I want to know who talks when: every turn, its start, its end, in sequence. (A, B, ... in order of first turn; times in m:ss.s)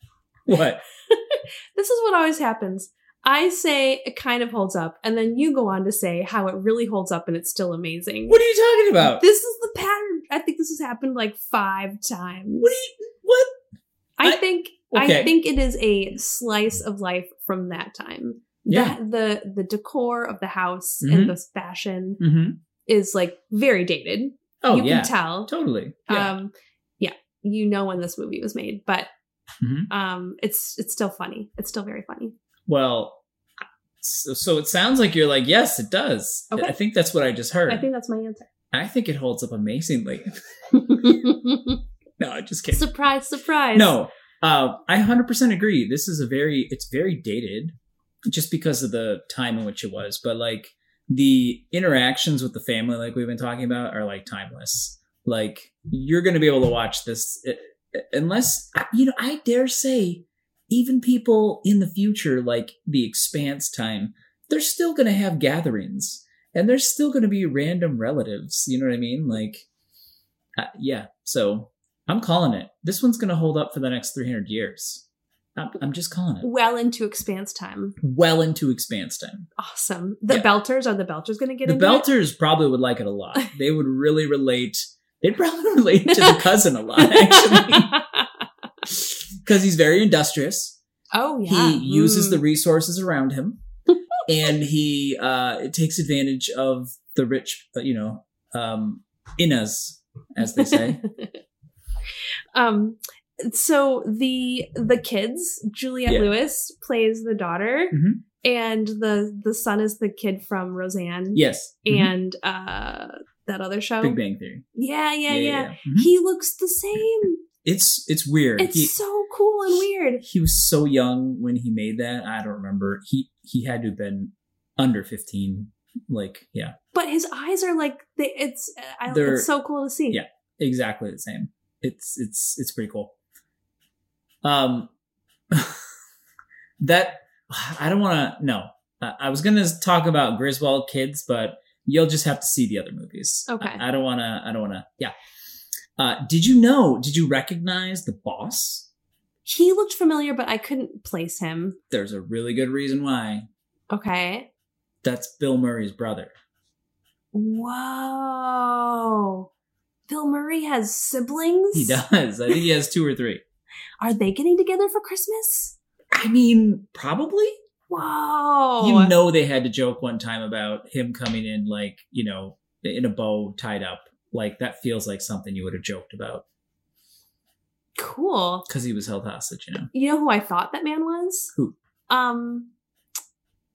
0:00.5-0:00.8 A
0:01.1-0:08.4 B
0:08.3-0:09.2 A
0:09.0-0:12.7 B
0:12.6-0:13.5 A
0:14.2-0:22.2 B
0:14.2-0:15.3 A
0:18.7-0:19.0 A
0:21.0-0:21.4 A
0:22.2-0:22.6 A
0:22.9-0:25.5 B
0:24.6-0:26.3 A
0:26.1-0:29.1 B
0:29.6-0:29.9 A
0:29.9-0:32.4 B
0:32.7-0:33.2 A
0:34.0-0:37.9 A
0:37.7-0:38.5 B
0:38.7-0:40.3 A
0:40.7-0:41.8 B
0:42.2-0:42.8 A
0:42.7-0:44.0 B
0:43.7-0:47.7 A
0:48.3-1:09.6 A
1:10.6-1:15.0 A
1:15.6-1:16.5 A
1:16.4-1:18.0 B
1:18.0-1:19.5 A
1:19.6-1:22.1 B
1:21.6-1:28.0 A
1:26.1-1:28.3 B
1:29.4-1:30.8 A
1:31.1-1:32.4 B
1:31.5-1:33.6 A
1:34.3-1:41.0 A
1:40.4-1:41.4 B
1:42.5-1:54.2 B
1:46.1-1:46.3 A
1:47.9-1:48.2 A
1:51.3-1:52.1 A
1:54.0-1:54.6 A
1:54.8-1:57.4 B
1:55.3-1:56.1 A
1:57.6-1:58.9 A
1:58.6-2:00.2 B
2:00.2-2:06.8 A
2:06.9-2:10.2 B
2:09.1-2:09.5 A
2:10.1-2:13.1 A
2:14.4-2:14.9 A
2:15.5-2:15.8 A
2:16.8-2:25.1 A
2:23.5-2:23.8 B
2:26.0-2:28.9 A
2:29.5-2:31.8 B
2:31.9-2:33.5 A
2:33.9-2:34.5 B
2:35.0-2:36.3 A
2:37.3-2:39.5 B
2:40.1-2:42.6 B
2:41.7-2:43.4 A
2:44.0-2:45.8 B
2:46.1-2:47.6 A
2:47.9-2:49.1 B
2:48.8-2:56.4 A
2:58.0-2:58.6 B
2:58.7-2:59.9 A
2:59.9-3:01.5 B
3:02.1-3:02.7 B